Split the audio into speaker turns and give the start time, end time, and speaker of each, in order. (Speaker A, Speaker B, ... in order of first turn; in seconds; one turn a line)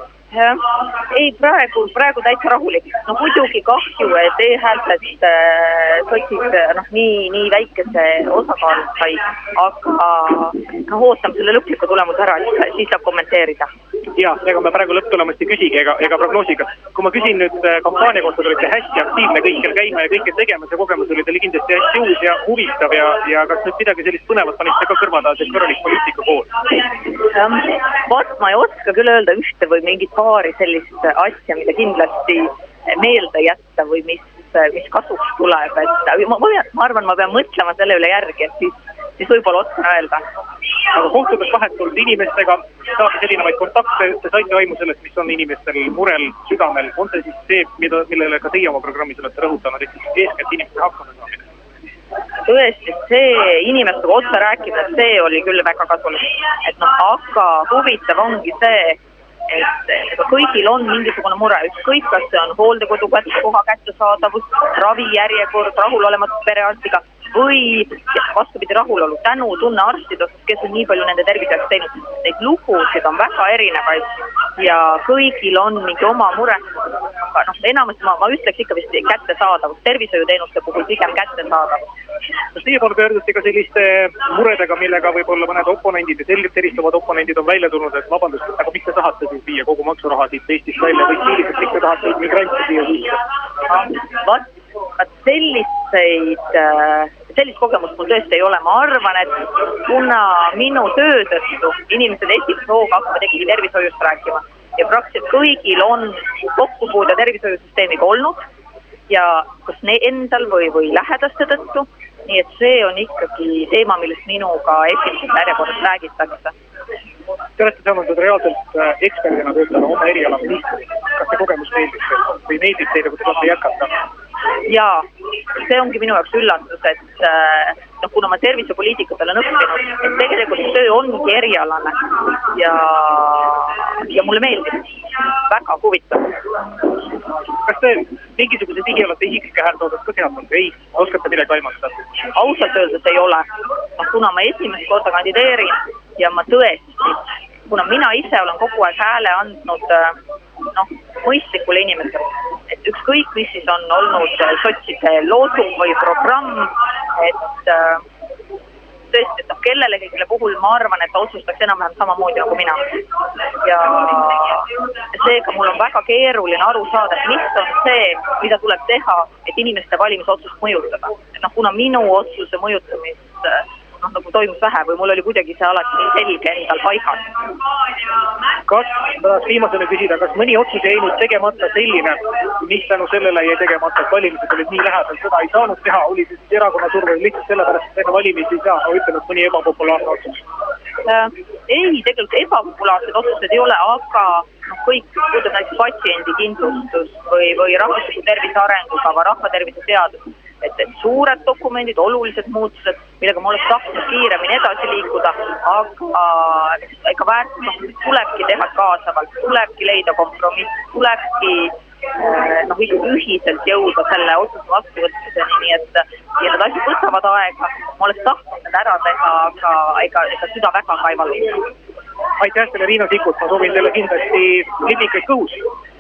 Speaker A: 0.3-13.7
Speaker B: 14.2-26.5
Speaker A: 27.1-40.2
Speaker B: 40.9-51.5
Speaker A: 52.5-81.9
Speaker B: 82.5-93.2
Speaker A: 93.7-94.5
Speaker A: 95.0-108.4
Speaker A: 109.1-116.5
Speaker B: 117.6-124.0
Speaker A: 124.7-137.0
Speaker B: 137.7-142.1
Speaker A: 142.3-158.0
Speaker A: 159.1-163.0
Speaker A: 163.6-177.2
Speaker B: 178.7-190.4
Speaker A: 191.1-221.7
Speaker B: 222.4-225.7